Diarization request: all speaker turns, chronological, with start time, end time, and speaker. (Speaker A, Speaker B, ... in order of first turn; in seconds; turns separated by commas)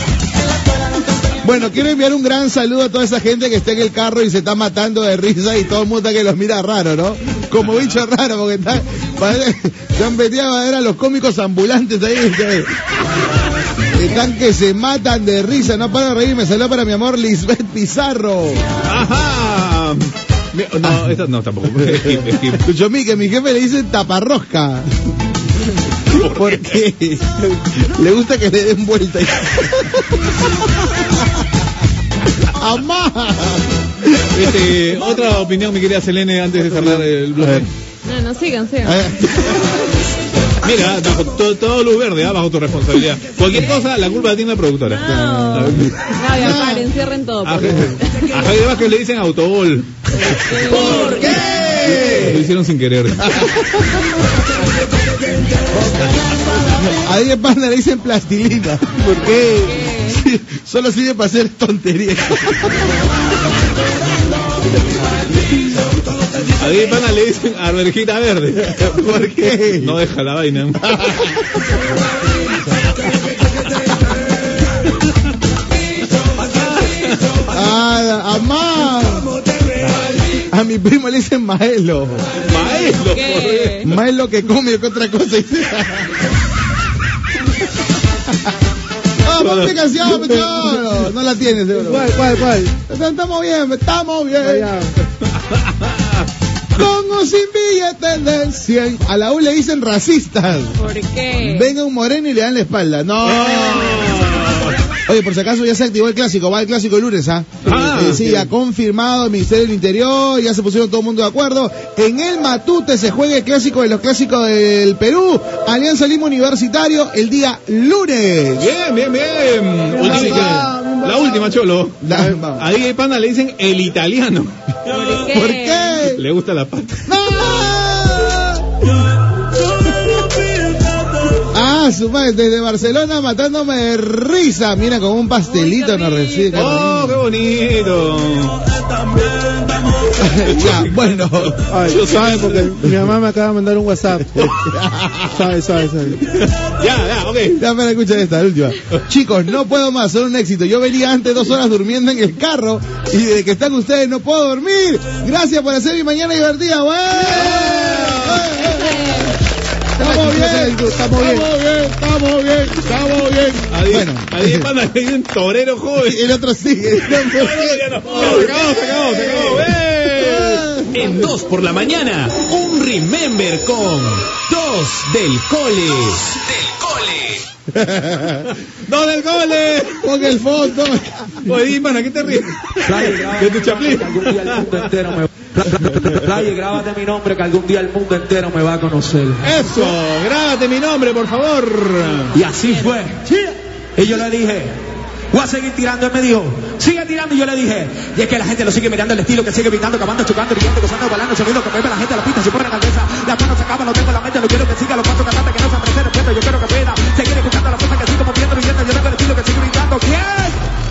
Speaker A: 1.4-12.8, Speaker A: 13.9-18.6, Speaker B: 18.9-22.6, Speaker A: 20.8-21.2, Speaker A: 21.7-24.9, Speaker B: 26.1-26.8, Speaker A: 26.1-30.4, Speaker A: 32.5-34.7, Speaker B: 34.3-37.7, Speaker A: 36.7-37.0, Speaker C: 38.0-39.0, Speaker A: 38.8-39.7, Speaker B: 40.6-46.1, Speaker C: 44.9-48.3, Speaker A: 45.1-46.9, Speaker B: 47.4-50.0, Speaker C: 50.2-51.4, Speaker B: 50.7-53.5, Speaker A: 53.2-54.0, Speaker A: 56.7-59.0, Speaker D: 59.0-59.8, Speaker C: 59.7-60.2, Speaker A: 60.0-62.9, Speaker B: 66.6-71.1, Speaker A: 68.7-70.0, Speaker A: 70.8-71.5, Speaker B: 76.4-77.3, Speaker A: 77.5-79.3, Speaker A: 80.3-82.3, Speaker B: 82.5-83.9, Speaker C: 83.0-83.9, Speaker A: 83.8-86.2, Speaker A: 89.2-92.2, Speaker B: 89.4-89.8, Speaker D: 90.2-90.7, Speaker D: 91.7-92.7, Speaker A: 92.9-94.7, Speaker D: 94.4-94.9, Speaker B: 95.3-96.3, Speaker A: 96.7-100.8, Speaker C: 100.8-101.7, Speaker A: 101.3-104.4, Speaker B: 103.2-104.8, Speaker A: 105.0-118.7, Speaker B: 107.6-108.3, Speaker B: 118.6-124.6, Speaker A: 120.0-121.4, Speaker D: 120.0-121.0, Speaker A: 122.0-122.6, Speaker C: 124.8-126.0, Speaker A: 125.2-126.2, Speaker B: 126.1-127.1, Speaker A: 127.1-128.8, Speaker A: 131.5-137.2, Speaker C: 135.6-136.5, Speaker B: 136.5-138.6, Speaker A: 140.1-141.6, Speaker B: 140.4-142.8, Speaker D: 141.7-144.6, Speaker A: 144.4-145.4, Speaker D: 145.3-146.2, Speaker B: 146.3-147.6, Speaker A: 147.5-159.3, Speaker B: 157.2-158.5, Speaker C: 158.6-159.3, Speaker A: 159.9-164.7, Speaker D: 160.0-161.5, Speaker B: 163.7-166.3, Speaker A: 166.0-171.2, Speaker B: 167.1-170.7, Speaker E: 170.9-177.4, Speaker A: 177.7-178.5, Speaker B: 178.8-180.1, Speaker A: 180.0-181.4, Speaker B: 181.4-184.9, Speaker F: 182.8-189.4, Speaker B: 189.4-192.3, Speaker F: 192.3-194.8, Speaker F: 195.3-210.6